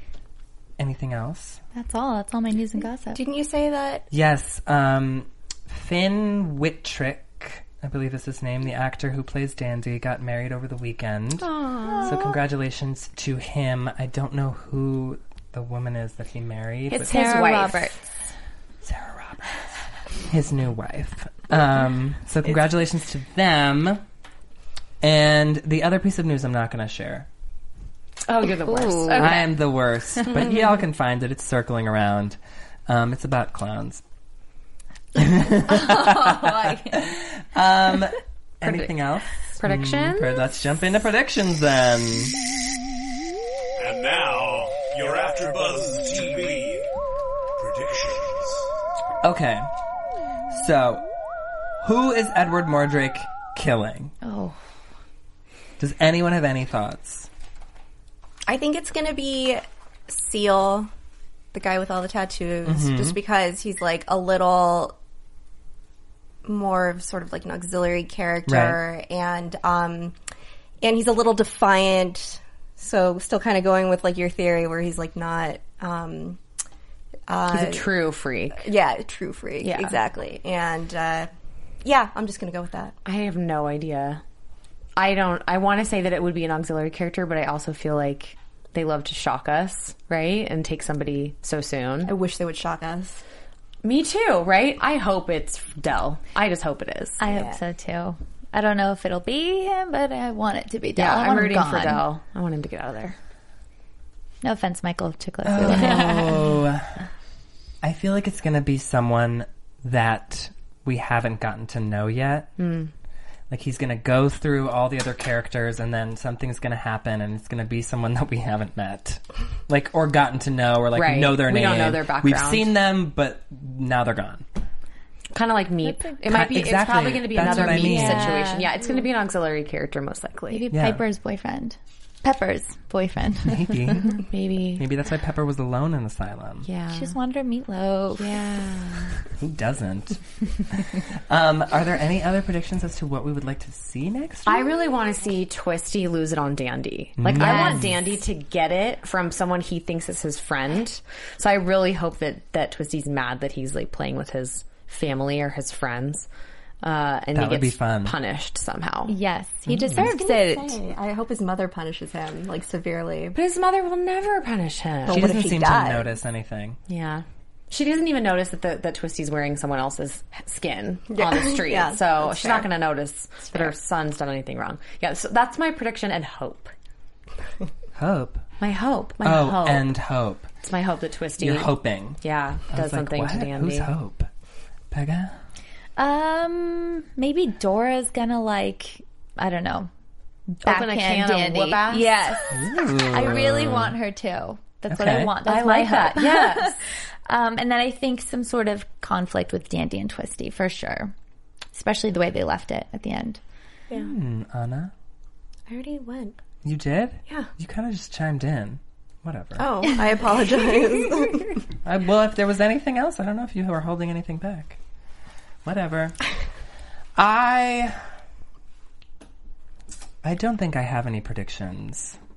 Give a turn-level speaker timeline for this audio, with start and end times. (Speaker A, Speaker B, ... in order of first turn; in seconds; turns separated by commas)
Speaker A: 0.8-1.6, Speaker B: 1.8-3.2, Speaker C: 3.1-4.1, Speaker A: 4.1-11.5, Speaker D: 11.4-12.3, Speaker A: 12.0-17.4, Speaker D: 16.9-17.9, Speaker B: 17.0-18.1, Speaker A: 18.8-19.7, Speaker A: 20.2-24.0, Speaker A: 25.0-27.3, Speaker D: 28.3-29.5, Speaker B: 28.7-29.4, Speaker A: 29.1-34.0, Speaker D: 30.2-30.7, Speaker A: 35.1-42.4, Speaker B: 35.6-37.1, Speaker D: 38.6-40.4, Speaker E: 43.8-46.9, Speaker E: 47.6-48.7, Speaker A: 49.2-49.7, Speaker A: 50.5-51.1, Speaker A: 51.8-54.1, Speaker B: 54.2-54.6, Speaker A: 55.8-57.3, Speaker C: 58.5-60.9, Speaker C: 61.5-65.0, Speaker A: 62.7-63.2, Speaker C: 66.5-70.2, Speaker A: 68.5-68.8, Speaker C: 70.8-76.4, Speaker C: 77.3-77.9, Speaker D: 77.5-78.7, Speaker C: 78.6-81.3, Speaker D: 79.6-80.0, Speaker C: 81.8-83.0, Speaker D: 83.0-84.2, Speaker D: 85.0-92.1, Speaker C: 92.0-93.2, Speaker D: 93.8-97.2, Speaker B: 97.2-102.0, Speaker C: 97.3-97.6, Speaker D: 101.0-103.2, Speaker B: 104.4-106.3, Speaker A: 105.5-107.0, Speaker D: 105.6-106.3, Speaker A: 107.8-112.5, Speaker D: 112.6-112.9, Speaker A: 113.5-124.5, Speaker D: 120.9-122.7, Speaker D: 125.3-130.7, Speaker B: 125.9-126.1, Speaker A: 126.2-128.4, Speaker B: 127.4-128.7, Speaker B: 130.5-134.2, Speaker A: 130.7-131.0, Speaker A: 133.4-134.2, Speaker D: 134.2-134.9, Speaker A: 134.8-136.7, Speaker D: 136.6-137.1, Speaker B: 136.9-138.4, Speaker D: 138.2-139.2, Speaker A: 139.3-144.7, Speaker D: 144.5-156.3, Speaker A: 147.2-147.9, Speaker B: 147.3-147.9, Speaker D: 156.8-159.2, Speaker A: 157.3-158.2, Speaker B: 159.1-160.8, Speaker A: 159.7-160.0, Speaker C: 159.9-163.4, Speaker D: 163.3-165.4, Speaker C: 165.1-166.1, Speaker A: 165.1-166.8, Speaker D: 166.9-176.7, Speaker C: 171.1-172.7, Speaker A: 177.9-178.4, Speaker D: 178.6-179.9, Speaker A: 179.2-180.5, Speaker D: 180.6-183.9, Speaker A: 181.4-182.2, Speaker A: 182.7-184.3, Speaker A: 184.9-185.4, Speaker B: 186.0-189.9, Speaker B: 190.5-201.1, Speaker D: 190.6-192.1, Speaker A: 192.5-194.0, Speaker A: 194.9-195.3, Speaker D: 195.4-196.8, Speaker B: 201.7-203.4, Speaker A: 203.9-204.9, Speaker C: 205.7-206.4, Speaker A: 206.6-209.8, Speaker C: 209.6-211.6, Speaker A: 211.8-214.8, Speaker A: 215.7-216.2, Speaker A: 217.2-218.0, Speaker A: 220.2-222.2